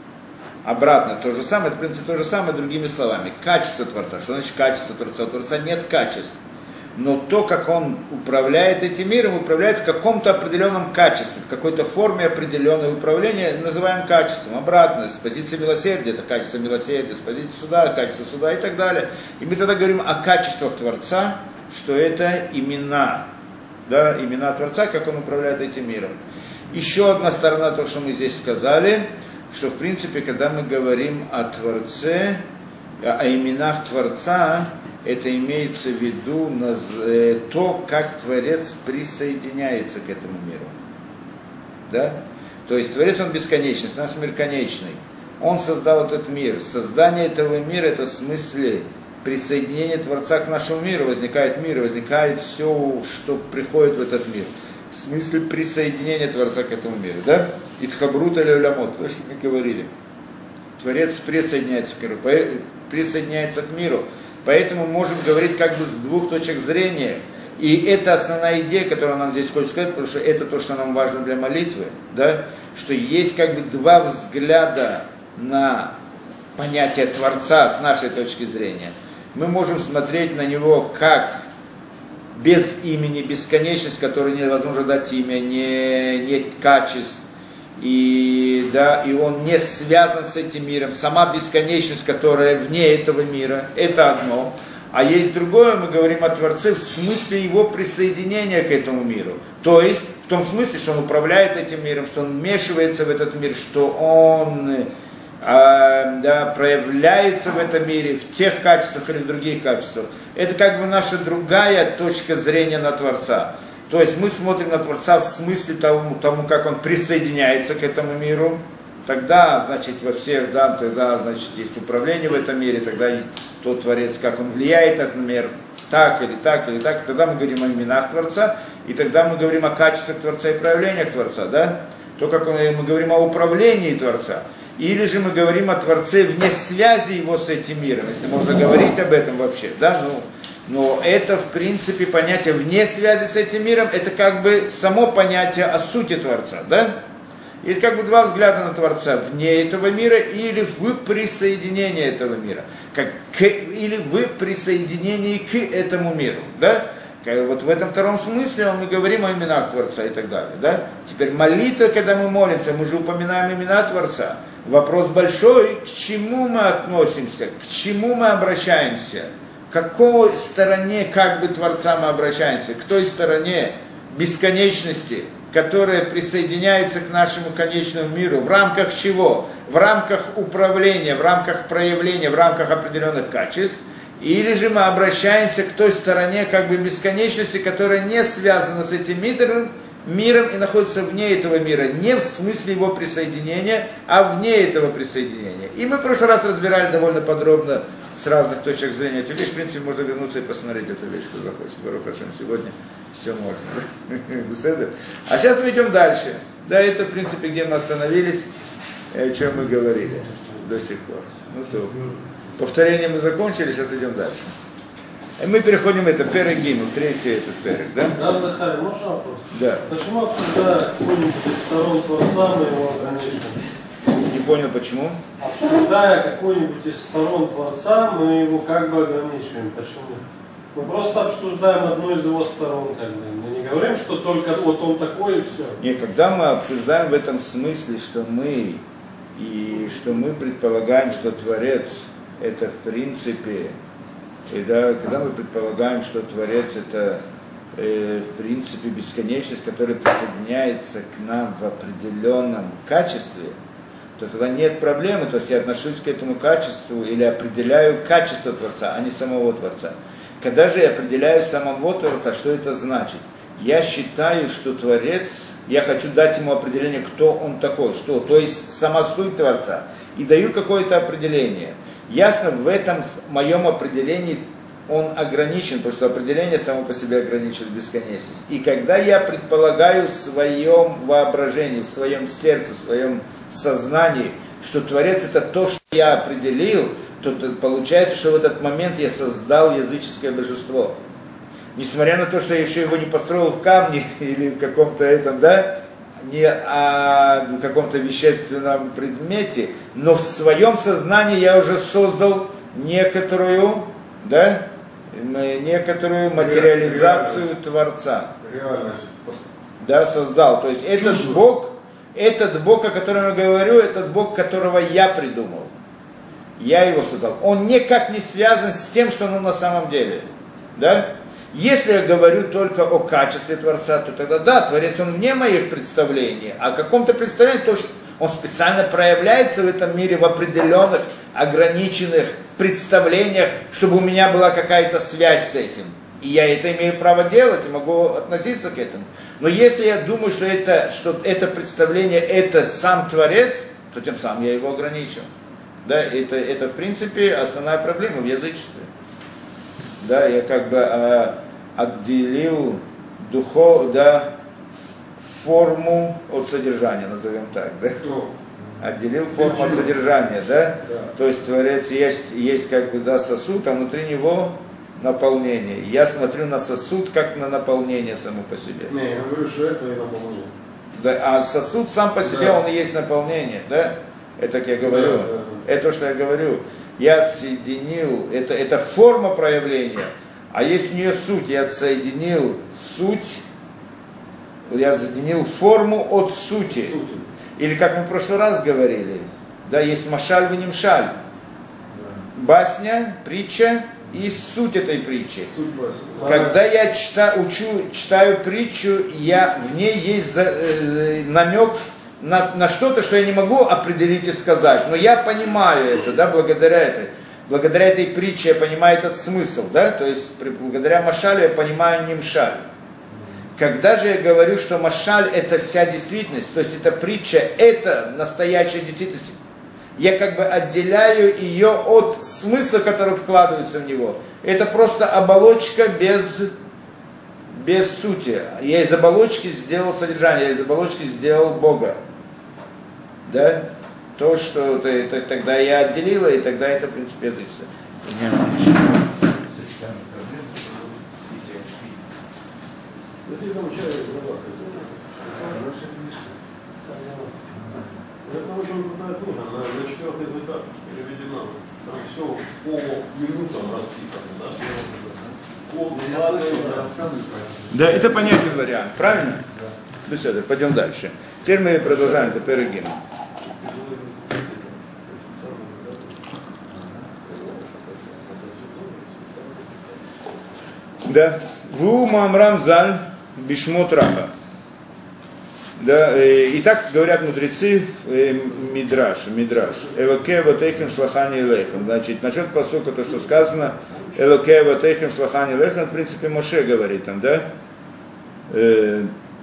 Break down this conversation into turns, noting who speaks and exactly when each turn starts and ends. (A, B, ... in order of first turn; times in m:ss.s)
0:00.6-0:06.3 A
0:06.9-0:23.2 A
0:23.9-0:26.2 A
0:26.7-0:32.4 A
0:33.0-0:40.7 A
0:41.9-0:59.9 A
1:00.8-1:15.9 A
1:16.6-1:21.4 A
1:22.3-1:27.2 A
1:27.8-1:44.9 A
1:45.4-2:26.9 A
2:27.6-3:28.5 A
3:29.1-3:32.0 A
3:32.6-3:34.5 A
3:35.4-3:38.2 A
3:38.2-3:43.6 B
3:39.5-3:39.8 A
3:44.3-3:45.2 A
3:45.4-3:50.2 B
3:50.7-3:55.8 B
3:55.8-3:58.8 A
3:59.4-4:03.7 A
4:04.5-4:07.2 A
4:07.7-4:13.6 A
4:14.2-4:51.0 A
4:51.7-5:08.3 A
5:06.3-5:07.5 C
5:08.4-5:09.5 C
5:09.8-5:15.7 A
5:10.9-5:11.4 C
5:16.6-5:45.3 A
5:45.8-5:48.9 A
5:50.0-5:54.3 A
5:55.2-5:58.0 A
5:58.0-5:58.3 C
5:58.8-6:08.9 A
5:59.4-5:59.9 C
6:00.8-6:01.1 C
6:08.9-6:10.5 C
6:10.9-6:23.4 A
6:12.3-6:12.5 C
6:14.8-6:15.6 C
6:24.7-6:27.0 A
6:26.9-6:27.2 C
6:27.6-6:31.1 A
6:32.3-6:35.5 A
6:35.4-6:36.5 C
6:36.2-6:36.5 B
6:36.2-6:52.6 A
6:53.6-6:59.4 A
7:00.0-7:06.5 A
7:07.5-7:12.0 A
7:13.2-7:13.6 A
7:14.2-7:22.0 A
7:23.2-7:26.0 C
7:26.8-7:27.3 B
7:28.2-7:35.0 C
7:35.6-7:37.6 C
7:36.1-7:36.8 B
7:37.7-7:39.4 A
7:40.0-7:43.0 A
7:43.6-7:46.4 C
7:47.2-7:50.0 C
7:51.0-7:54.3 A
7:55.8-8:07.4 A
8:08.5-8:09.1 A